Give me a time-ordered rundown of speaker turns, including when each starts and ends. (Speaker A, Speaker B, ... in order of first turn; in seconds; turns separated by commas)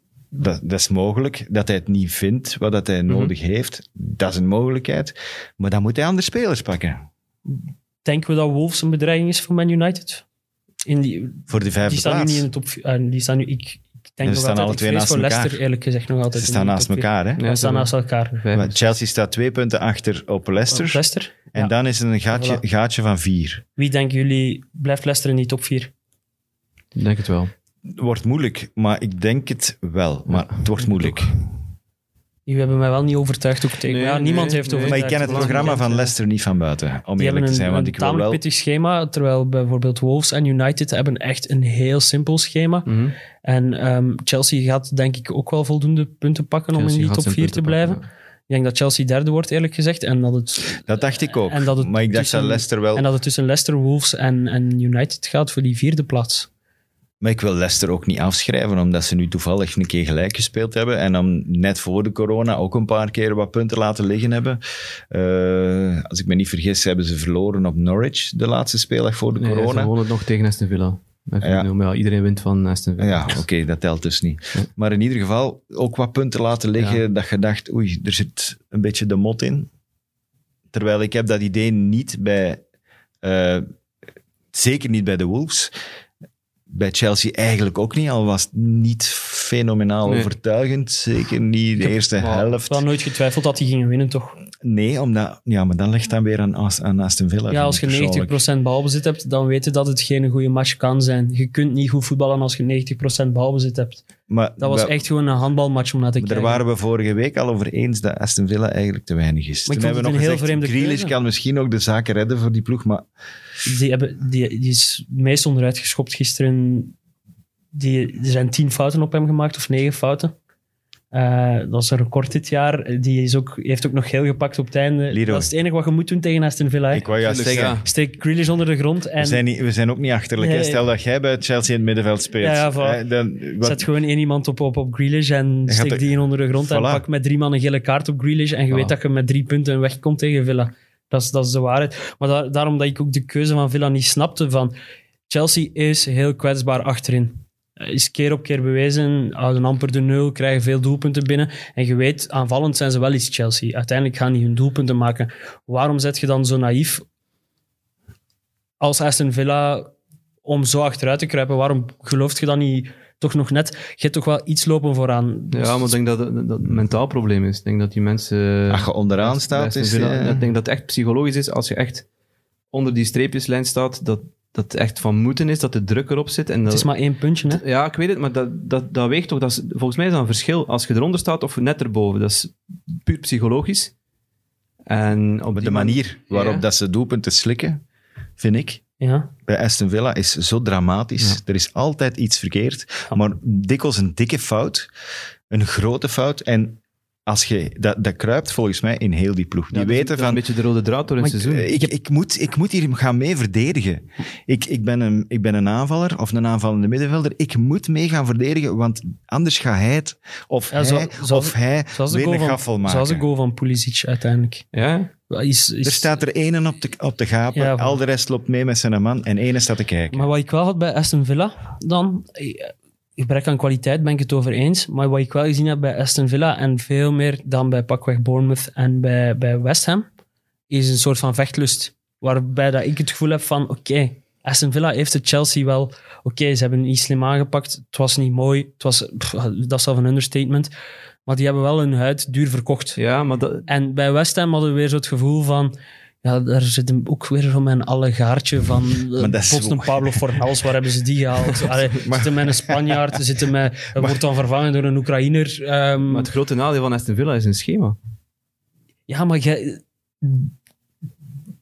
Speaker A: 0.3-7.0, Speaker B: 3.1-3.3, Speaker C: 8.0-10.2, Speaker C: 10.8-18.4, Speaker A: 11.5-12.5, Speaker A: 14.2-15.6, Speaker A: 16.3-17.4, Speaker B: 17.4-18.8, Speaker A: 18.5-21.0, Speaker C: 20.7-21.7, Speaker A: 21.5-23.6, Speaker C: 22.3-22.6, Speaker C: 23.8-25.9, Speaker B: 26.9-27.5, Speaker A: 27.9-31.4, Speaker B: 30.3-31.3, Speaker C: 32.5-36.1, Speaker B: 33.9-35.8, Speaker A: 34.9-38.4, Speaker C: 37.2-42.9, Speaker B: 42.9-43.1, Speaker C: 43.4-56.5, Speaker B: 46.7-48.0, Speaker A: 50.8-53.1, Speaker A: 57.2-69.9, Speaker B: 69.4-73.4, Speaker A: 71.4-71.7, Speaker A: 73.0-79.7, Speaker A: 80.7-82.6, Speaker A: 83.2-83.7, Speaker A: 84.5-85.7, Speaker A: 86.7-92.8, Speaker B: 90.0-90.3, Speaker B: 91.8-92.5, Speaker C: 92.7-94.4, Speaker A: 94.6-98.4, Speaker C: 97.5-104.0, Speaker A: 104.3-105.0, Speaker C: 104.6-106.6, Speaker A: 106.2-113.1, Speaker C: 109.7-111.2, Speaker C: 113.6-117.0, Speaker C: 117.7-120.3, Speaker C: 121.1-127.1, Speaker A: 125.1-125.5, Speaker A: 126.9-127.8, Speaker B: 127.2-127.8, Speaker C: 127.8-129.4, Speaker A: 129.2-133.9, Speaker C: 130.4-130.8, Speaker C: 132.4-133.0, Speaker C: 133.6-144.7, Speaker A: 135.7-136.0, Speaker A: 136.6-137.0, Speaker C: 145.3-157.0, Speaker C: 158.8-159.9, Speaker C: 160.4-165.9, Speaker B: 165.5-172.0, Speaker A: 168.7-170.5, Speaker B: 172.7-176.9, Speaker C: 176.7-177.6, Speaker B: 177.5-183.9, Speaker B: 184.9-186.7, Speaker A: 185.5-187.8, Speaker A: 188.4-188.8, Speaker C: 189.0-189.3, Speaker A: 189.4-194.9, Speaker A: 195.5-200.4, Speaker B: 199.7-201.7, Speaker C: 201.2-201.9, Speaker A: 201.4-213.2, Speaker C: 210.7-214.7, Speaker B: 214.7-215.1, Speaker C: 215.3-216.1, Speaker A: 215.8-220.3, Speaker C: 217.5-218.0, Speaker C: 220.1-230.1, Speaker C: 230.7-240.7, Speaker C: 241.2-243.0, Speaker B: 243.0-243.7, Speaker C: 243.7-256.3, Speaker A: 249.2-250.2, Speaker A: 251.9-253.0, Speaker B: 256.0-258.0, Speaker C: 259.1-260.5